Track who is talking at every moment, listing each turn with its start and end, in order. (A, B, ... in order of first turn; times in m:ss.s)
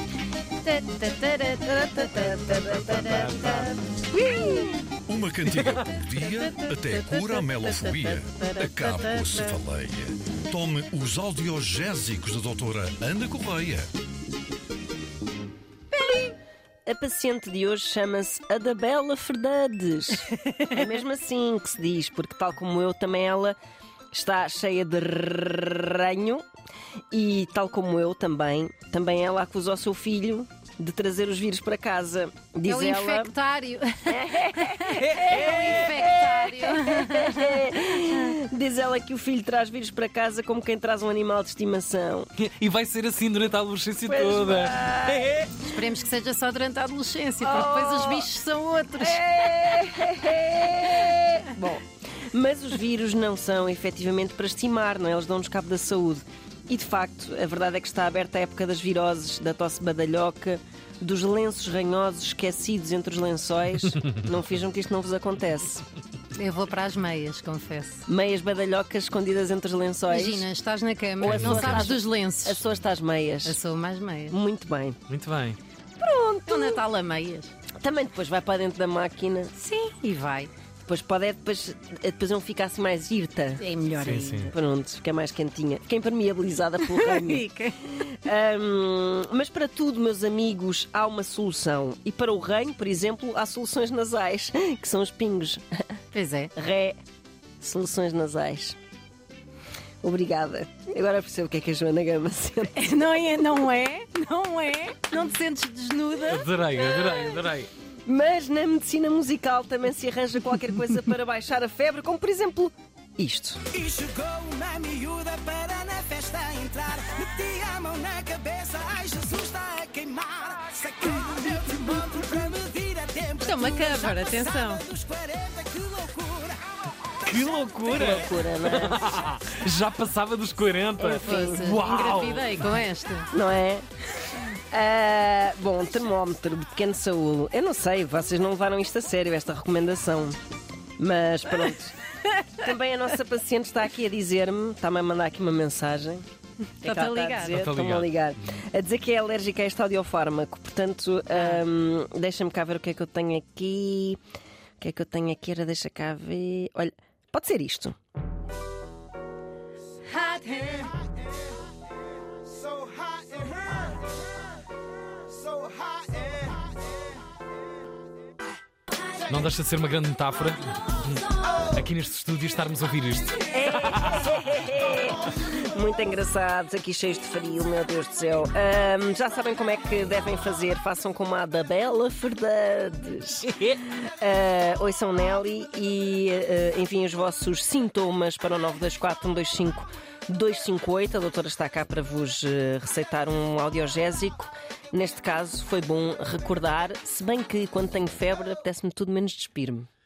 0:00.6-0:03.7 A
0:02.0-0:02.9 B
0:02.9-0:03.5 C
0:03.4-0:03.7 B
0:04.3-0:04.6 A
0:05.0-0:13.9 D
0:06.5-0:09.5 A
0:16.8-0:23.6 B
0:24.1-0:26.4 B
0:27.1-0:33.3 B
0:32.6-0:38.1 A
0:34.1-0:42.3 B
0:42.4-0:45.5 C
0:44.1-0:45.3 B
0:45.6-0:50.2 A
0:47.4-0:48.3 B
0:49.0-1:05.8 B
1:06.3-1:08.1 A
1:08.1-1:10.5 B
1:10.1-1:12.6 A
1:11.2-1:11.9 C
1:11.2-1:13.6 B
1:13.4-1:14.4 A
1:14.3-1:15.0 B
1:15.1-1:15.6 C
1:16.0-1:16.8 B
1:16.5-1:17.5 A
1:17.8-1:19.5 B
1:19.6-1:20.5 A
1:20.8-1:23.6 B
1:23.6-1:24.5 A
1:23.9-1:24.5 C
1:24.4-1:35.8 B
1:26.8-1:28.1 A
1:36.1-1:36.5 A
1:36.6-1:37.0 B
1:37.6-1:38.8 B
1:40.0-1:43.0 B
1:42.7-1:46.5 A
1:46.3-1:47.7 C
1:48.0-1:53.6 B
1:53.7-2:06.8 E
2:03.4-2:04.8 A
2:07.2-2:12.7 C
2:07.9-2:09.1 B
2:11.0-2:11.8 B
2:11.2-2:13.3 A
2:13.3-2:13.8 B
2:14.7-2:20.4 B
2:21.0-2:21.9 B
2:22.6-2:26.2 B
2:26.8-2:34.2 B
2:26.8-2:27.6 A
2:27.4-2:28.1 C
2:31.3-2:31.6 A
2:34.8-2:37.9 B
2:40.0-2:41.0 A
2:42.7-2:43.6 E
2:45.5-2:46.5 E
2:49.3-2:54.3 C
2:53.5-3:19.9 B
3:03.4-3:03.8 C